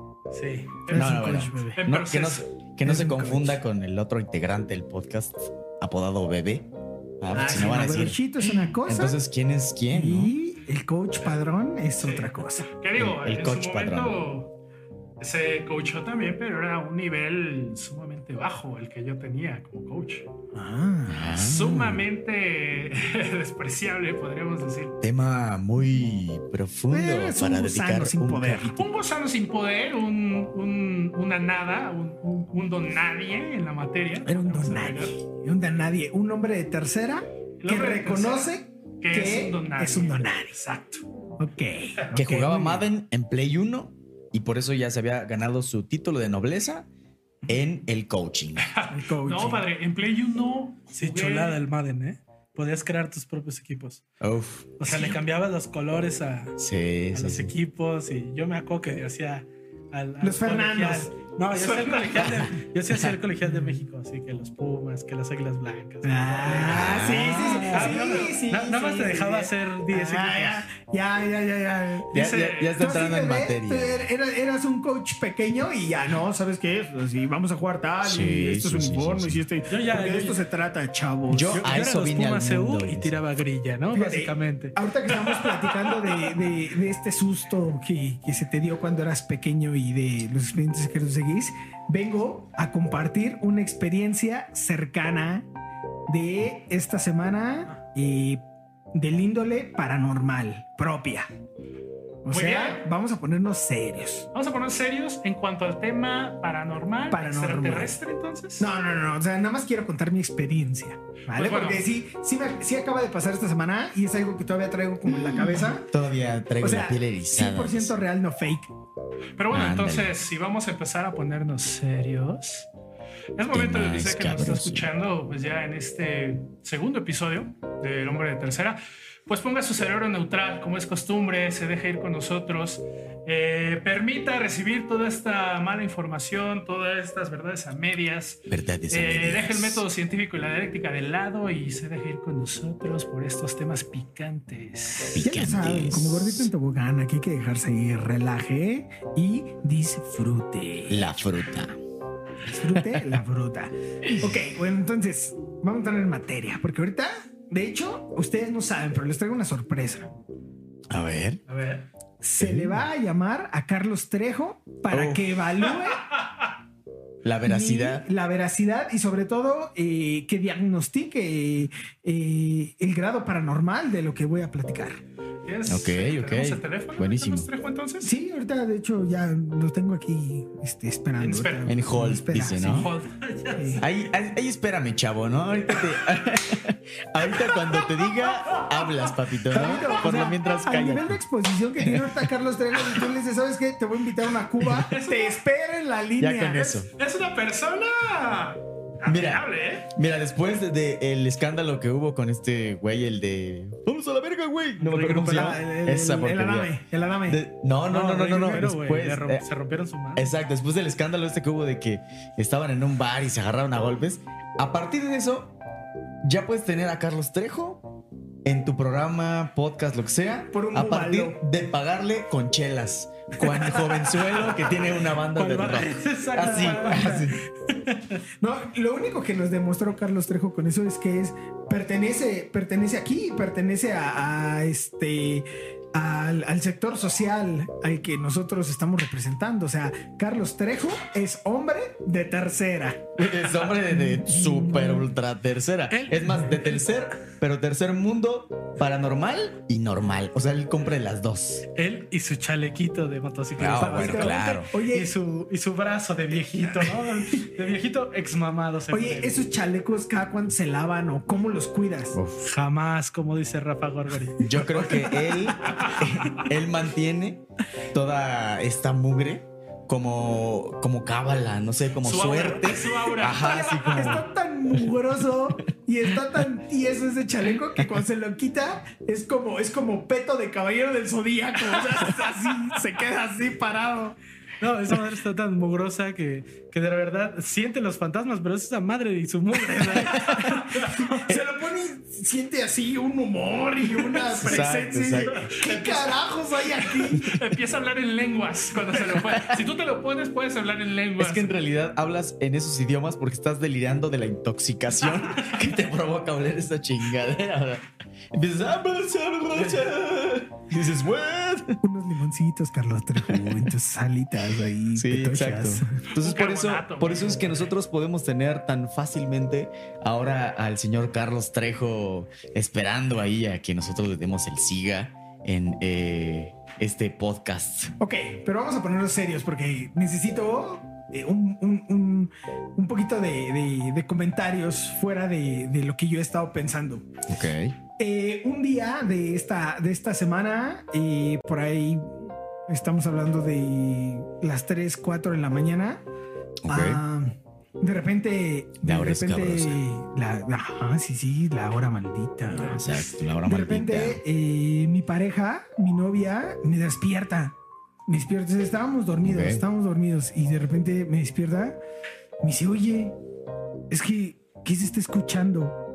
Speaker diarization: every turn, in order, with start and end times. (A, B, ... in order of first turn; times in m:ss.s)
0:00.3-0:01.8 A
0:00.9-0:01.7 B
0:00.9-0:06.7 C
0:01.8-0:02.5 D
0:02.8-0:03.6 B
0:07.2-0:08.2 C
0:07.3-0:09.2 B
0:08.8-0:10.4 C
0:09.9-0:12.7 B
0:12.0-0:14.5 D
0:13.0-0:14.2 C
0:15.2-0:20.3 D
0:20.5-0:21.2 B
0:21.1-0:22.0 C
0:21.3-0:25.0 D
0:25.0-0:28.8 C
0:26.9-0:28.8 B
0:28.8-0:35.1 D
0:34.2-0:40.6 B
0:37.6-0:41.0 D
0:41.4-0:42.9 B
0:42.1-0:46.9 C
0:47.5-0:48.7 C
0:48.6-0:51.6 D
0:48.9-0:49.6 B
0:50.9-0:54.0 A
0:54.2-0:55.0 C
0:54.8-0:56.6 A
0:56.6-0:57.5 C
0:57.1-1:10.7 A
1:00.2-1:01.1 B
1:01.6-1:02.0 D
1:06.0-1:21.6 B
1:06.6-1:07.9 C
1:07.5-1:08.3 D
1:12.1-1:14.1 C
1:12.1-1:12.9 D
1:18.0-1:19.4 C
1:19.7-1:20.4 A
1:21.3-1:23.1 C
1:21.5-1:24.8 A
1:23.9-1:35.5 B
1:36.1-1:38.4 B
1:38.9-1:41.3 B
1:42.2-1:44.3 B
1:42.3-1:42.9 D
1:44.3-1:48.7 D
1:47.1-1:47.9 B
1:48.6-1:55.9 B
1:51.3-1:51.9 D
1:55.9-1:57.9 C
1:56.6-1:58.7 B
1:59.4-2:02.7 D
1:59.5-2:00.1 C
2:03.4-2:25.2 D
2:03.5-2:04.9 C
2:18.5-2:19.8 C
2:25.1-2:26.5 C
2:25.2-2:31.0 B
2:30.9-2:31.8 C
2:32.4-2:40.1 B
2:40.9-2:41.4 C
2:41.5-2:41.8 D
2:42.2-2:46.1 B
2:42.4-2:42.9 C
2:44.9-2:45.4 C
2:47.2-2:48.1 C
2:47.4-2:55.0 B
2:55.4-2:58.1 D
2:55.7-2:57.5 C
2:58.0-3:02.9 B
3:01.2-3:01.7 D
3:01.7-3:02.9 C
3:02.5-3:03.7 D
3:03.6-3:03.8 B
3:03.8-3:11.2 C
3:08.5-3:08.8 D
3:09.5-3:16.8 B
3:11.8-3:12.3 C
3:14.7-3:15.4 D
3:16.2-3:16.9 C
3:17.0-3:19.9 D
3:19.0-3:26.7 C
3:24.8-3:25.6 A
3:25.1-3:27.4 B
3:27.3-3:29.4 C
3:27.9-3:30.3 A
3:30.2-3:35.5 C
3:36.2-3:37.9 C
3:38.4-3:47.4 C
3:40.5-3:41.4 B
3:45.2-3:47.3 A
3:46.4-3:47.3 B
3:48.4-4:03.1 B
4:03.2-4:11.7 C
4:03.7-4:05.1 B
4:06.0-4:06.4 A
4:11.8-4:19.4 A
4:13.6-4:14.7 C
4:13.8-4:15.1 B
4:16.8-4:17.5 B
4:18.9-4:22.2 B
4:22.1-4:22.4 C
4:22.4-4:24.8 A
4:24.4-4:34.3 C
4:25.7-4:26.0 D
4:32.0-4:34.2 D
4:33.3-4:44.2 B
4:44.6-4:50.6 A
4:50.5-4:50.9 D
4:51.0-4:57.4 B
4:54.3-4:55.5 C
4:55.5-4:56.2 D
4:57.0-5:01.6 D
4:59.1-4:59.6 C
5:01.2-5:11.8 C
5:11.8-5:16.0 B
5:13.2-5:13.7 C
5:14.9-5:28.0 C
5:16.0-5:17.7 D
5:28.0-5:37.1 B
5:37.3-5:37.8 C
5:38.0-5:46.0 B
5:46.7-5:47.0 C
5:46.7-5:57.6 B
5:48.8-5:49.8 C
5:52.6-5:54.2 C
5:58.1-6:01.8 B
5:59.2-5:59.6 C
6:02.4-6:03.2 B
6:03.9-6:05.8 B